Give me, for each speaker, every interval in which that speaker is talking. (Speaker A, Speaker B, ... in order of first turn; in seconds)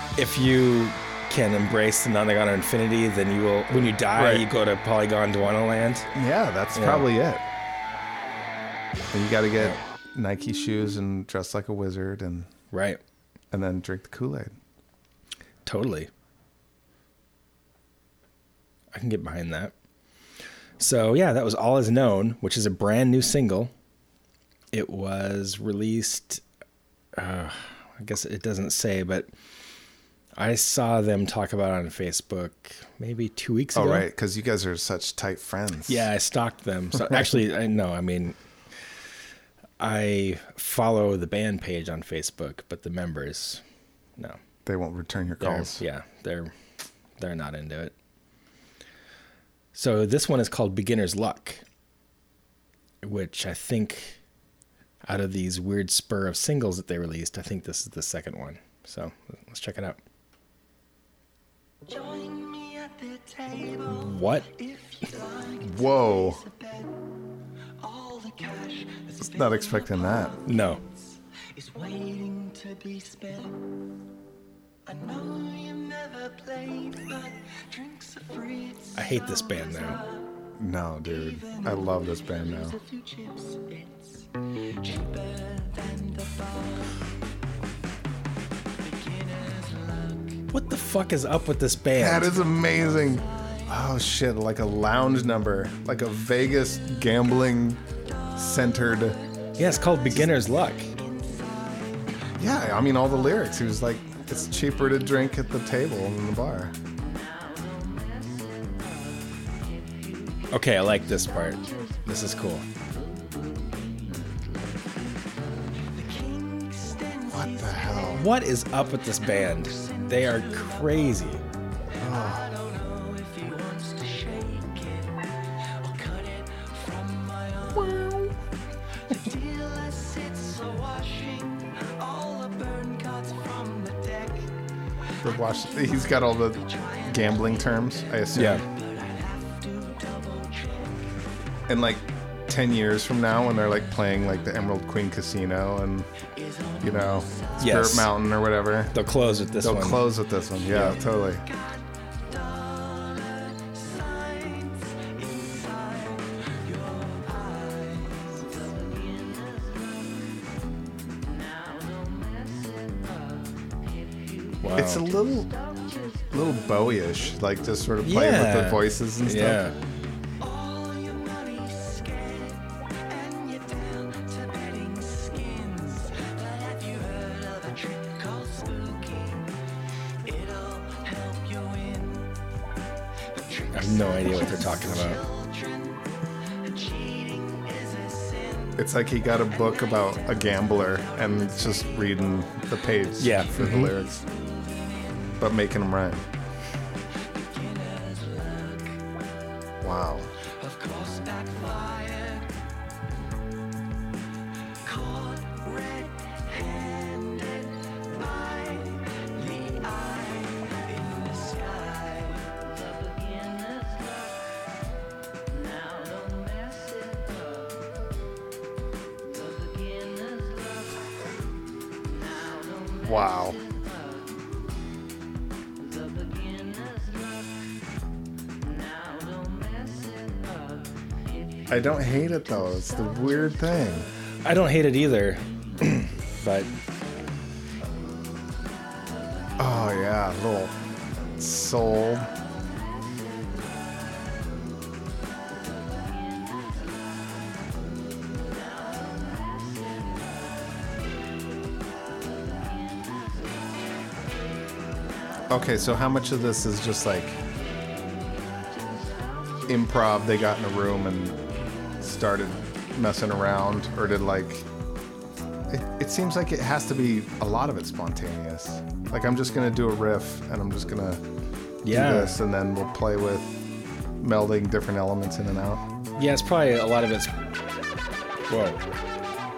Speaker A: 0.2-6.1, 6.7-7.1, 12.7-13.0, 15.7-16.1, 18.9-19.7, 20.8-23.7, 24.7-26.4, 27.1-29.3, 30.4-34.1, 35.9-38.4, 39.8-43.6, 45.4-46.5, 47.2-47.9, 49.7-51.6, 53.0-54.2, 55.0-60.0, 63.9-64.5, 70.5-70.8, 78.9-80.0, 90.5-92.4, 99.6-100.9, 110.5-112.6, 118.1-121.4, 138.3-138.6, 147.6-148.1, 148.9-150.1, 150.7-151.0, 164.6-165.1, 168.0-169.8, 183.7-185.2, 193.2-193.9, 234.4-236.7, 271.8-272.4, 276.2-277.3, 278.5-278.8
Speaker B: 4.0-4.5, 6.1-7.4, 9.1-12.5, 13.5-14.5, 33.7-36.1, 44.6-45.8, 65.6-66.4, 69.2-70.4, 80.6-82.8, 92.0-97.8, 98.3-99.2, 102.4-106.7, 117.3-118.2, 122.0-122.5, 127.7-128.3, 135.2-138.6, 141.7-146.1, 146.8-148.9, 149.6-151.4, 164.8-165.5, 166.3-169.7, 188.8-194.2, 195.4-196.2, 199.8-200.3, 223.0-223.6, 231.7-234.1, 239.6-240.8, 241.3-242.3, 255.5-257.4, 259.7-261.4, 262.0-264.7, 265.7-271.2, 271.9-273.6, 274.2-275.8
Speaker C: 61.9-67.1, 67.8-73.7, 74.8-80.3, 81.0-87.0, 88.8-90.4, 92.4-93.7, 98.9-102.3, 115.9-118.3, 119.2-121.2, 122.1-128.2, 129.1-134.5, 135.2-141.1, 146.3-147.8, 151.4-159.8, 161.7-163.1, 170.4-179.5, 180.2-182.3, 183.3-195.3, 197.3-199.0, 200.4-202.5, 204.8-212.6